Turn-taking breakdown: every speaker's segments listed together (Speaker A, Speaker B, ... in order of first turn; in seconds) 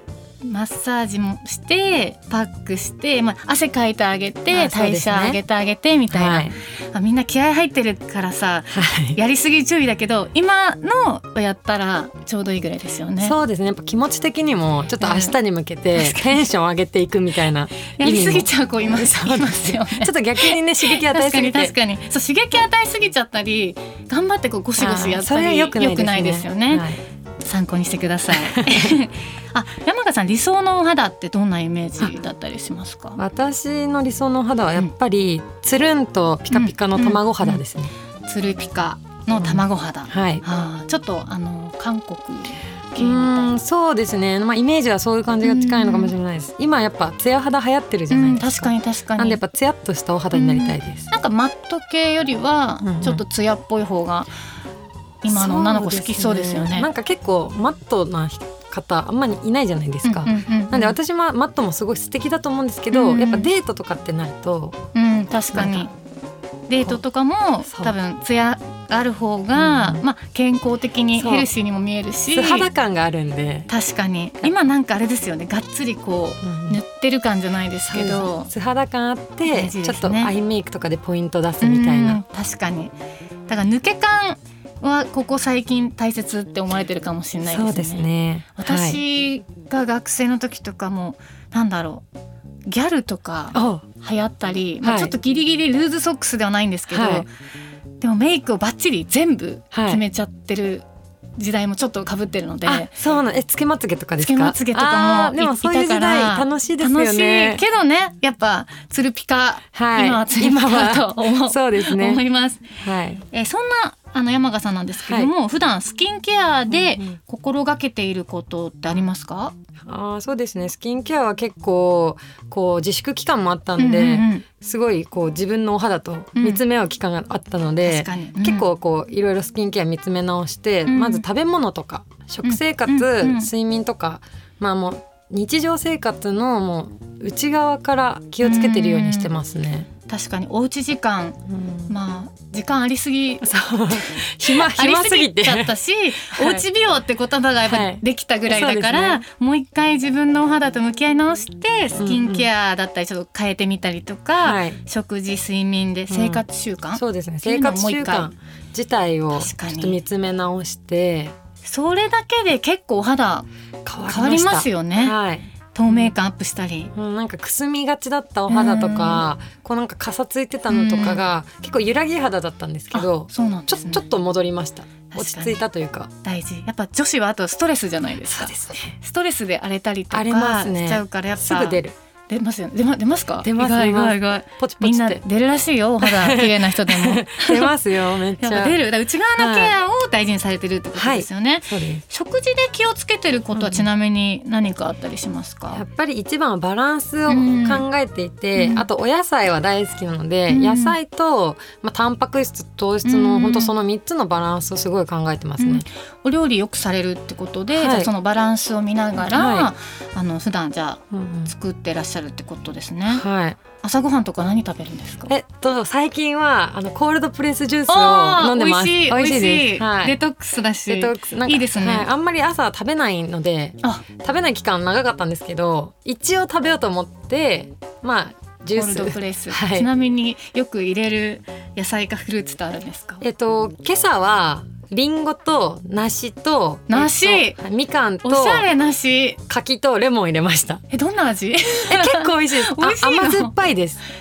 Speaker A: 0.4-13.3, 15.0-15.3, 15.9-16.4, 17.9-26.9, 27.4-33.2, 36.5-37.6, 38.2-43.6, 45.4-46.1, 48.1-49.4, 50.3-54.3, 55.2-56.9, 60.0-61.0, 62.9-63.5, 64.9-65.9, 66.7-72.7, 73.7-78.5, 79.5-80.3, 81.6-82.9, 83.5-92.1, 92.7-97.3, 98.0-100.9, 101.4-102.9, 104.2-112.7, 113.3-119.5, 123.8-124.5, 126.4-126.6, 127.8-128.7, 130.9-131.3, 132.4-133.5, 138.4-139.3, 140.1-158.3, 159.3-160.0, 161.6-163.5, 164.1-165.2, 165.7-166.9, 168.5-169.2, 170.7-171.2, 172.9-174.1, 175.1-175.6, 176.2-187.7, 188.4-195.8, 197.3-197.9, 198.6-198.9, 200.5-201.0, 203.0-203.7, 205.6-213.2, 213.8-215.3, 217.9-222.1, 228.7-233.2, 236.9-237.6, 238.2-239.4, 240.9-243.6
Speaker B: 4.5-5.4, 6.1-6.6, 8.7-9.2, 13.2-21.8, 24.8-27.0, 28.4-29.0, 33.2-37.9, 39.4-40.5, 43.0-51.1, 52.8-53.2, 55.3-64.8, 65.5-65.9, 67.7-68.0, 69.6-70.0, 71.2-71.5, 72.3-73.7, 76.4-76.8, 77.9-82.2, 87.5-89.0, 93.5-93.9, 94.8-95.2, 96.9-97.3, 99.7-100.0, 102.7-107.7, 109.7-112.2, 112.8-113.2, 115.1-115.3, 116.7-117.2, 119.8-139.9, 141.5-141.9, 143.4-146.7, 147.6-149.2, 152.0-152.5, 154.4-154.8, 156.1-161.3, 163.8-166.2, 166.9-176.1, 178.3-178.9, 180.1-182.0, 183.4-185.2, 186.0-188.8, 189.4-189.8, 190.9-192.0, 193.5-193.9, 195.7-205.9, 207.7-208.1, 209.2-209.7, 211.1-211.5, 213.1-213.6, 215.3-220.2, 220.9-229.9, 233.2-238.7, 239.5-240.8, 241.9-244.0